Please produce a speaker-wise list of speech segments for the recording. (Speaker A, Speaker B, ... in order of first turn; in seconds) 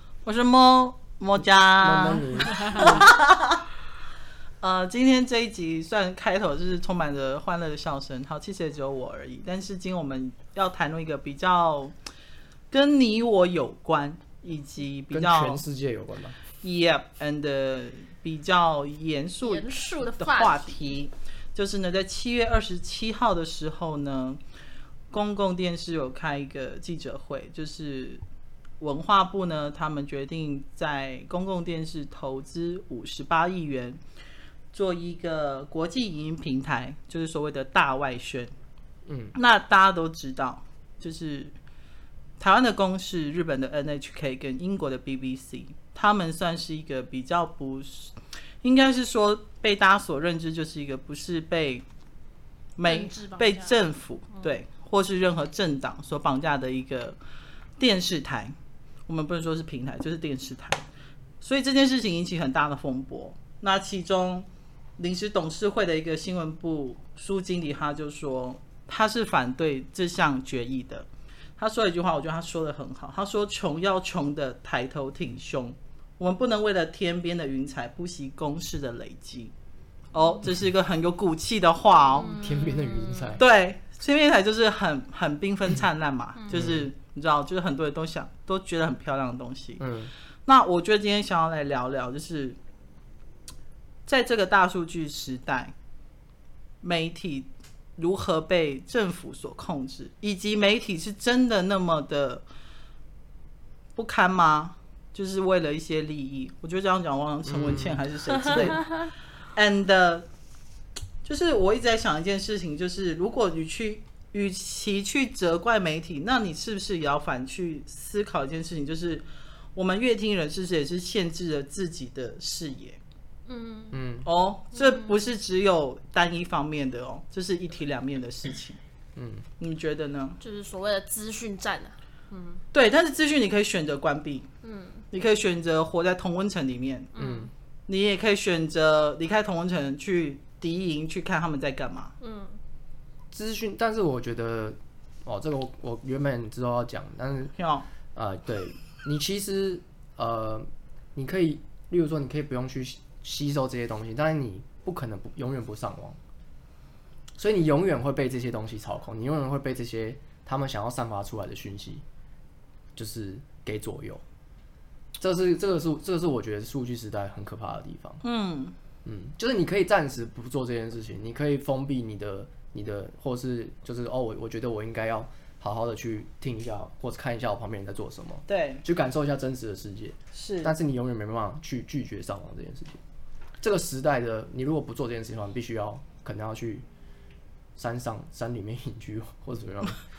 Speaker A: 0.2-3.6, 4.6-11.9, 12.7-15.6, 16.6-19.7, 20.2-24.4, 25.1-28.2, 28.8-34.0, 34.7-38.5, 39.4-41.5, 42.4-51.8, 52.8-57.2, 57.8-58.5, 59.1-60.8, 61.4-64.5, 65.0-71.1, 71.6-79.5, 80.1-82.3, 83.4-89.8, 90.5-92.6, 94.1-95.7, 96.8-102.4, 104.0-109.0, 109.5-110.2, 111.2-119.2, 119.8-123.0, 124.2-128.8, 129.6-130.4, 132.7-134.5, 135.1-137.1, 137.9-142.1, 147.6-147.9, 168.2-168.8, 178.5-178.8, 180.3-180.7
Speaker B: 1.8-3.0, 15.1-16.4, 39.1-39.4, 82.2-83.4, 86.5-86.9, 89.8-90.1, 107.5-108.8, 123.9-124.3, 129.2-129.5, 137.2-137.5, 143.3-147.5, 148.2-156.2, 157.4-162.0, 163.0-164.2, 165.2-168.2, 169.1-183.0, 183.6-186.8, 187.8-190.0
Speaker C: 2.7-3.0, 19.4-20.8, 52.9-53.8, 82.2-83.4, 108.8-109.1, 123.5-124.0, 124.7-125.2, 130.4-132.6, 134.6-135.0, 137.2-137.5, 142.2-142.6